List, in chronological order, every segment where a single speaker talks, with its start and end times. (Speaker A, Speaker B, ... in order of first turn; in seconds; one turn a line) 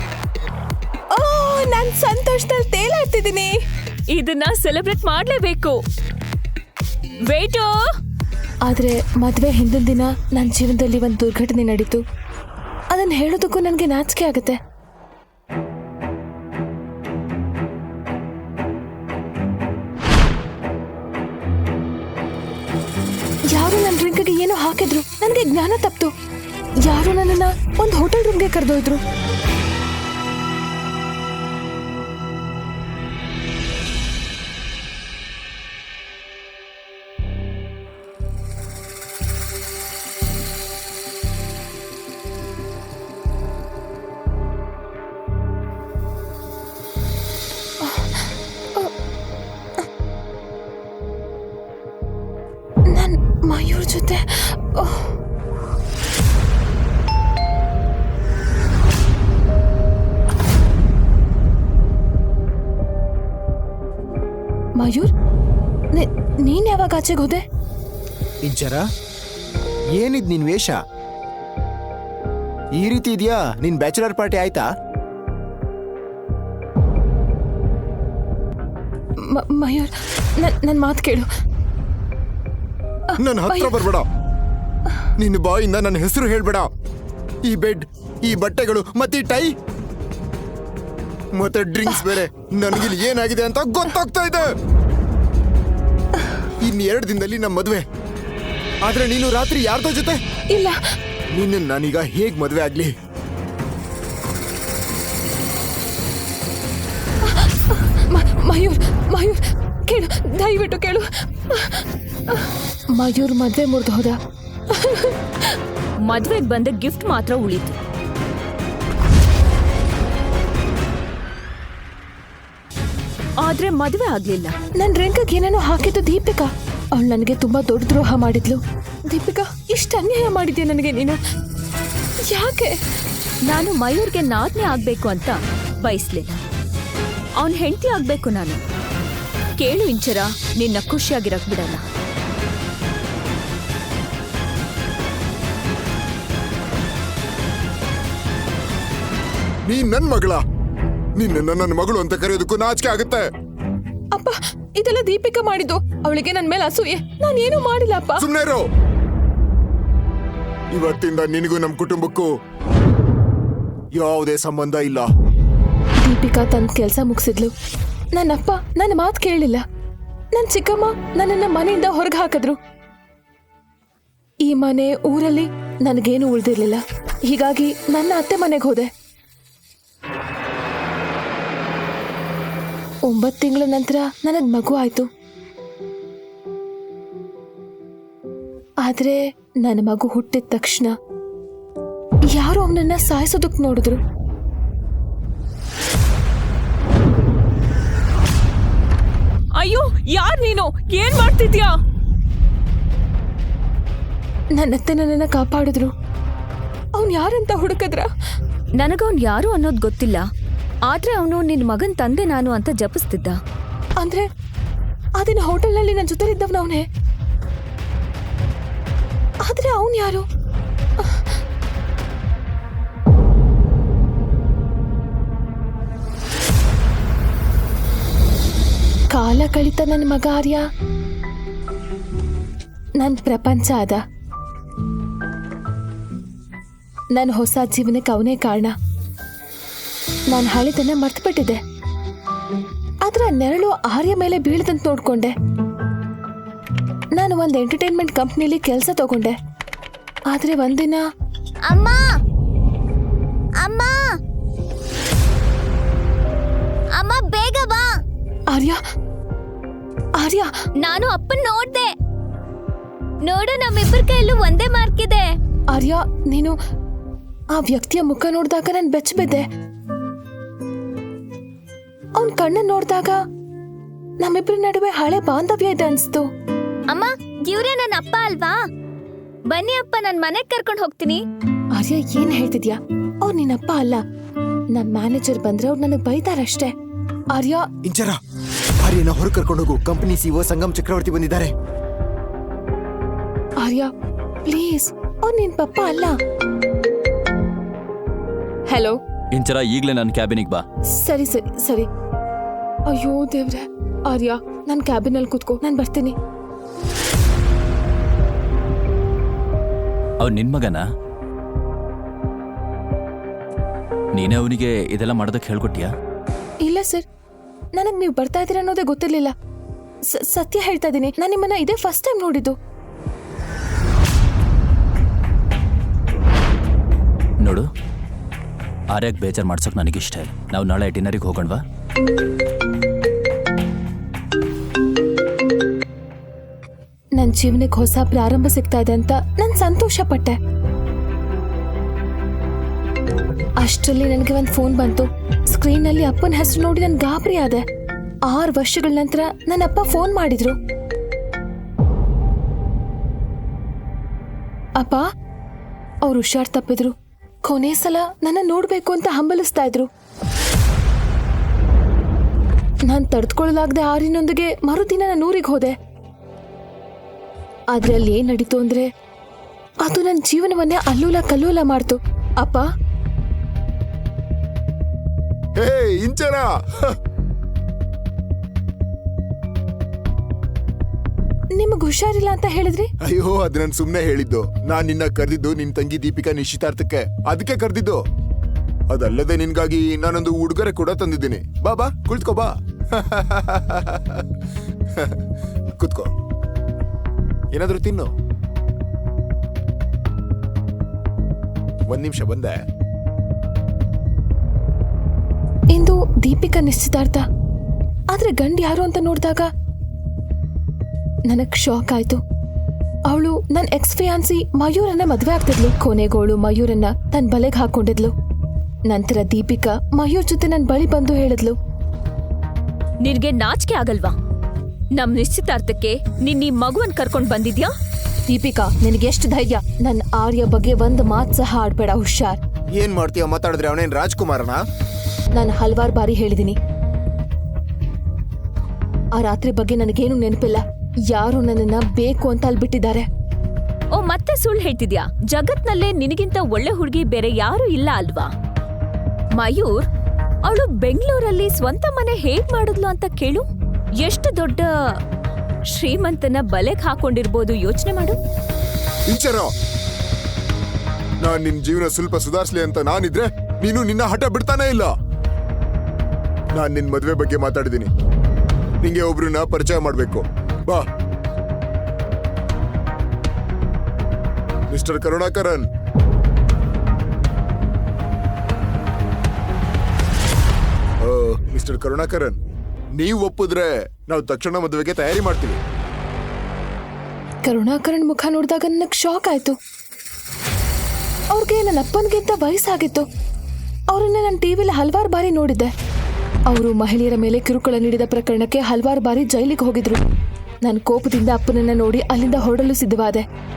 Speaker A: 1.1-3.5
Speaker B: 4.1-5.8
Speaker B: 7.3-7.9
Speaker A: 8.7-12.0
Speaker A: 12.9-14.6
Speaker A: 23.5-26.1
Speaker A: 26.8-29.0
Speaker A: 47.8-48.9
Speaker A: 52.9-55.1
Speaker A: 64.8-65.1
Speaker A: 65.9-67.4
Speaker C: 68.4-68.9
Speaker C: 69.9-70.8
Speaker C: 72.8-74.7
Speaker A: 79.2-81.3
Speaker A: 83.2-83.8
Speaker C: 83.2-84.1
Speaker C: 85.2-86.7
Speaker C: 87.4-89.5
Speaker C: 91.3-94.5
Speaker C: 96.6-97.8
Speaker C: 98.8-100.2
Speaker A: 100.5-100.8
Speaker C: 101.3-102.9
Speaker A: 107.2-114.2
Speaker A: 114.7-115.5
Speaker B: 116.0-117.8
Speaker B: 123.4-124.5
Speaker A: 124.8-131.2
Speaker A: 132.3-132.8
Speaker B: 133.5-136.4
Speaker B: 137.4-138.6
Speaker B: 139.6-141.8
Speaker C: 149.7-150.4
Speaker C: 151.2-153.3
Speaker A: 154.1-158.3
Speaker C: 158.2-158.6
Speaker C: 160.7-162.3
Speaker C: 164.0-165.1
Speaker A: 166.0-167.5
Speaker A: 168.1-169.7
Speaker A: 170.3-172.6
Speaker A: 174.4-178.9
Speaker A: 183.1-185.1
Speaker A: 188.8-190.9
Speaker A: 192.3-194.0
Speaker B: 199.6-201.7
Speaker A: 204.5-205.9
Speaker A: 206.9-208.1
Speaker B: 208.8-210.3
Speaker B: 210.9-213.4
Speaker A: 214.0-214.3
Speaker A: 215.2-216.9
Speaker A: 219.4-220.2
Speaker A: 221.0-221.3
Speaker A: 229.1-230.7
Speaker A: 233.0-234.0
Speaker A: 237.1-238.7
Speaker A: 240.3-241.6
Speaker A: 243.1-245.3
Speaker A: 247.1-249.4
Speaker A: 250.3-251.0
Speaker D: 251.7-252.1
Speaker D: 253.6-254.2
Speaker D: 256.9-258.0
Speaker A: 258.5-258.8
Speaker A: 260.2-260.5
Speaker D: 260.8-261.9
Speaker D: 263.2-265.4
Speaker A: 265.7-266.6
Speaker A: 267.5-269.4
Speaker A: 272.2-273.2
Speaker A: 274.2-276.3
Speaker D: 276.9-278.6
Speaker D: 279.5-281.2
Speaker A: 281.8-284.0
Speaker A: 284.7-286.7
Speaker A: 287.3-287.7
Speaker C: 287.8-288.2
Speaker C: 288.8-291.5
Speaker A: 293.6-293.9
Speaker A: 294.4-296.2
Speaker A: 298.7-299.0
Speaker E: 299.3-300.6
Speaker A: 300.9-301.9
Speaker A: 302.9-306.2
Speaker E: 310.2-310.8
Speaker E: 314.1-315.9
Speaker A: 316.6-317.1
Speaker A: 317.8-319.3
Speaker A: 320.1-322.6
Speaker E: 328.9-331.6
Speaker A: 337.2-340.4
Speaker A: 343.6-347.6
Speaker A: 348.3-350.6
Speaker A: 354.8-355.1
Speaker A: 356.0-359.9
Speaker A: 362.9-365.8
Speaker A: 367.7-368.9
Speaker A: 369.8-372.7
Speaker C: 375.6-377.0
Speaker A: 381.6-382.9
Speaker C: 383.0-388.0
Speaker C: 388.9-394.2
Speaker C: 394.9-395.2
Speaker C: 395.8-396.1
Speaker C: 397.5-398.1
Speaker C: 401.9-402.6
Speaker A: 405.7-407.3
Speaker A: 408.1-409.5
Speaker A: 411.3-412.2
Speaker A: 413.1-418.1
Speaker A: 418.9-421.6
Speaker B: 423.0-424.1
Speaker B: 425.0-427.7
Speaker A: 428.3-432.4
Speaker C: 432.7-434.6
Speaker A: 435.3-436.6
Speaker A: 439.2-443.1
Speaker B: 443.9-448.3
Speaker B: 449.4-449.9
Speaker B: 450.5-453.5
Speaker B: 454.0-454.7
Speaker B: 455.7-458.2
Speaker C: 459.1-459.5
Speaker C: 461.2-464.9
Speaker C: 466.5-467.9
Speaker C: 468.8-470.9
Speaker C: 474.7-475.7
Speaker C: 481.0-482.4
Speaker C: 483.0-485.6
Speaker A: 487.4-489.6
Speaker A: 491.3-493.1
Speaker A: 493.9-495.7
Speaker A: 496.5-500.0
Speaker A: 500.6-503.2